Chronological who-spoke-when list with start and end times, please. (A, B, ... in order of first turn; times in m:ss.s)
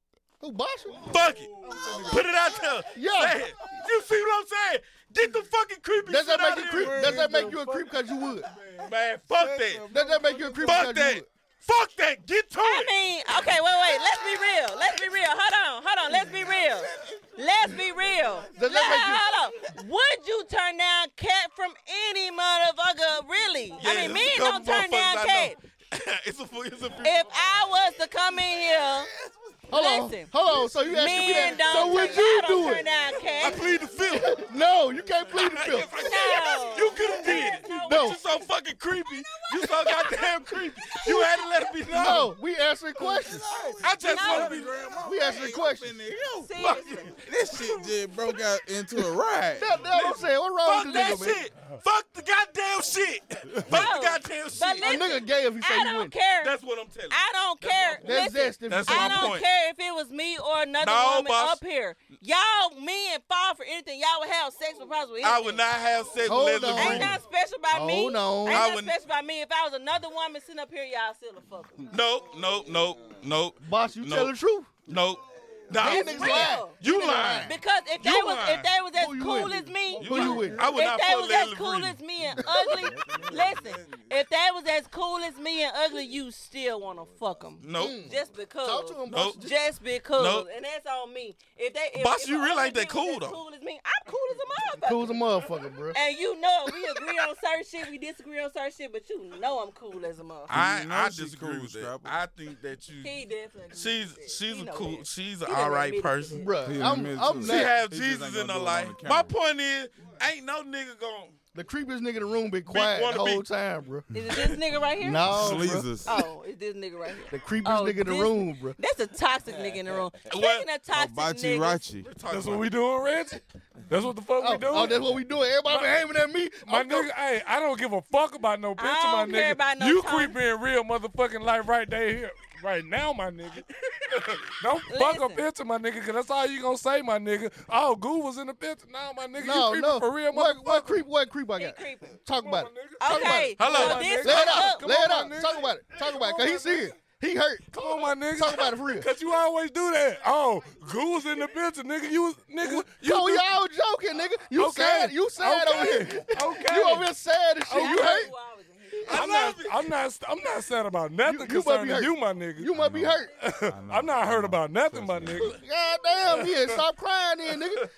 0:00.4-0:01.2 A
0:01.1-0:07.2 B
0:01.3-0:02.7 C
0:02.9-0:03.4 A
0:06.1-0:08.5 A
0:06.6-0:11.0 C
0:08.8-0:09.8 B
0:09.9-0:11.3 A
0:10.6-0:12.9 B
0:12.6-0:25.6 D
0:16.2-0:16.6 C
0:18.6-0:19.3 A
0:23.8-0:27.2 B
0:27.0-0:29.1 D
0:29.7-0:32.9 A
0:29.7-0:33.7 D
0:33.4-0:34.4 B
0:34.2-0:35.9 A
0:35.3-0:42.3 B
0:36.0-0:38.3 D
0:37.7-0:38.2 A
0:39.3-0:40.3 D
0:40.8-0:41.7 D
0:41.9-0:43.5 A
0:43.0-0:46.6 C
0:43.8-0:44.8 B
0:44.0-0:44.7 D
0:45.0-0:45.9 A
0:46.4-0:47.7 D
0:46.6-0:47.2 B
0:47.1-0:49.8 C
0:49.6-0:51.4 A
0:49.9-0:55.0 B
0:53.7-0:56.5 D
0:54.8-0:56.1 A
0:56.4-0:58.1 B
0:57.1-1:05.7 D
0:58.0-0:59.3 A
0:58.7-0:59.4 B
1:00.8-1:01.6 B
1:05.2-1:07.2 B
1:06.2-1:07.2 A
1:06.7-1:11.9 D
1:07.7-1:08.6 A
1:08.5-1:08.9 B
1:11.9-1:14.3 B
1:13.6-1:14.7 A
1:14.9-1:18.7 B
1:15.7-1:17.6 A
1:15.8-1:16.8 D
1:17.5-1:40.6 D
1:19.0-1:20.6 A
1:20.0-1:22.0 B
1:27.6-1:28.0 B
1:27.8-1:29.5 A
1:29.1-1:29.4 B
1:30.2-1:30.5 B
1:32.0-1:33.4 B
1:34.8-1:36.0 A
1:40.5-1:42.2 C
1:40.5-1:43.1 B
1:43.0-1:46.5 D
1:43.7-1:46.5 B
1:46.4-1:47.8 A
1:46.6-1:49.4 C
1:47.4-1:51.4 B
1:51.5-1:54.1 A
1:52.7-1:53.4 B
1:54.1-2:01.8 D
1:55.0-1:55.9 A
1:55.2-1:56.2 C
1:57.3-1:58.8 A
2:00.3-2:00.7 B
2:00.9-2:02.1 C
2:02.0-2:02.7 B
2:02.3-2:05.0 E
2:04.4-2:07.1 A
2:05.7-2:05.9 E
2:06.6-2:13.6 E
2:08.8-2:10.4 D
2:14.6-2:21.0 E
2:14.9-2:15.4 D
2:19.4-2:29.1 A
2:21.6-2:22.2 D
2:22.4-2:26.8 E
2:23.0-2:24.9 D
2:23.6-2:24.4 B
2:27.7-2:33.5 E
2:32.6-2:38.3 A
2:34.6-2:37.1 E
2:37.7-2:38.2 E
2:37.7-2:39.4 D
2:39.1-2:39.8 B
2:39.1-2:42.8 E
2:41.2-2:43.3 A
2:42.7-2:45.6 C
2:43.4-2:45.6 E
2:45.4-2:47.8 A